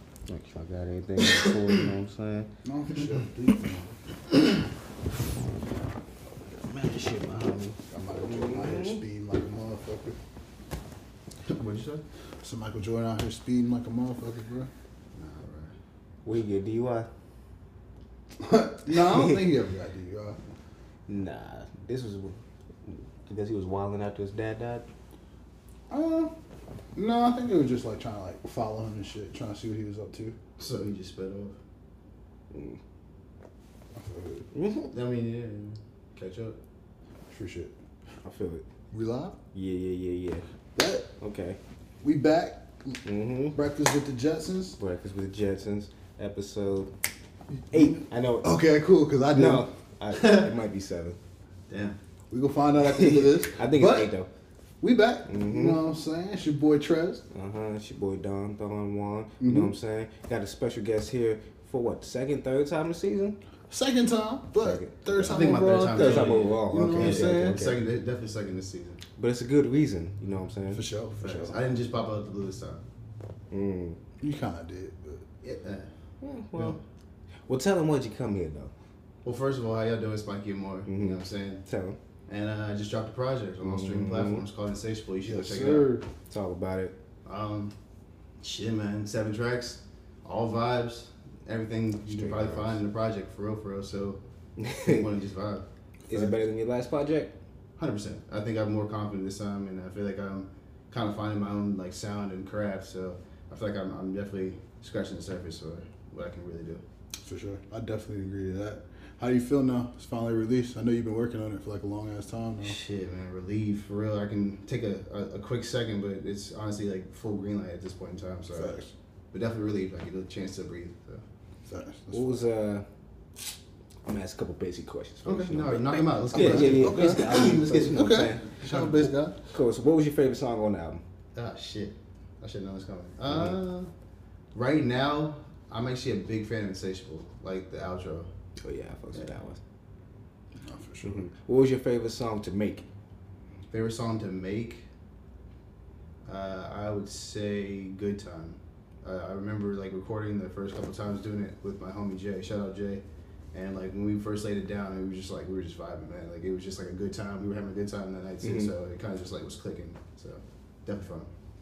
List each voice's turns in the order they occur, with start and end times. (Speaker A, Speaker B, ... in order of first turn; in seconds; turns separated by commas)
Speaker A: 0.3-2.5, Speaker B: 2.6-4.0, Speaker A: 6.6-9.0, Speaker B: 7.9-10.2, Speaker C: 11.5-12.0, Speaker B: 12.4-14.7, Speaker C: 15.2-15.8, Speaker A: 16.2-17.1, Speaker B: 18.4-20.4, Speaker A: 18.9-19.4, Speaker A: 21.1-24.9, Speaker B: 25.9-26.3, Speaker B: 26.9-30.4, Speaker C: 30.6-31.6, Speaker A: 32.5-32.8, Speaker B: 34.0-34.5, Speaker A: 34.5-34.9, Speaker C: 34.9-36.6, Speaker B: 37.3-37.8, Speaker A: 38.2-38.6, Speaker B: 38.9-39.4, Speaker A: 39.5-40.5, Speaker B: 40.8-41.1, Speaker A: 41.2-41.6, Speaker B: 42.0-43.0, Speaker A: 43.0-43.6, Speaker B: 43.5-44.8, Speaker A: 44.8-46.9, Speaker A: 47.7-48.5, Speaker B: 47.7-49.7, Speaker A: 49.3-51.2, Speaker C: 50.1-50.5, Speaker C: 51.7-52.0, Speaker B: 52.3-54.1, Speaker A: 52.9-54.3, Speaker B: 54.8-57.2, Speaker A: 55.3-55.8, Speaker A: 57.3-63.4, Speaker B: 59.4-59.7, Speaker B: 63.7-67.5, Speaker A: 64.6-67.8, Speaker C: 65.2-69.0, Speaker A: 69.2-71.5, Speaker B: 70.7-71.2, Speaker C: 71.2-72.8, Speaker A: 73.5-74.0, Speaker B: 74.2-75.2, Speaker C: 75.4-75.9, Speaker A: 76.2-76.8, Speaker A: 77.5-78.7, Speaker C: 79.2-81.6, Speaker A: 80.9-82.0, Speaker C: 82.3-85.9, Speaker A: 83.6-84.4, Speaker B: 85.2-86.1, Speaker A: 86.3-87.0, Speaker C: 87.3-87.8, Speaker C: 88.4-94.2, Speaker A: 92.1-92.8, Speaker A: 94.6-95.1, Speaker C: 94.8-96.3, Speaker A: 96.1-97.3, Speaker C: 97.8-106.8, Speaker B: 107.2-112.8, Speaker C: 112.6-118.8, Speaker B: 118.5-118.9, Speaker C: 119.3-121.2, Speaker B: 121.7-122.4, Speaker A: 122.1-122.8, Speaker A: 124.1-128.6, Speaker C: 125.2-129.1, Speaker B: 126.3-129.4, Speaker A: 129.5-131.0, Speaker C: 131.3-133.9, Speaker A: 133.3-133.6, Speaker C: 134.5-138.3, Speaker A: 138.6-139.6, Speaker B: 140.6-141.2, Speaker A: 141.0-142.9, Speaker C: 143.7-144.9, Speaker C: 146.3-161.3, Speaker A: 158.4-158.7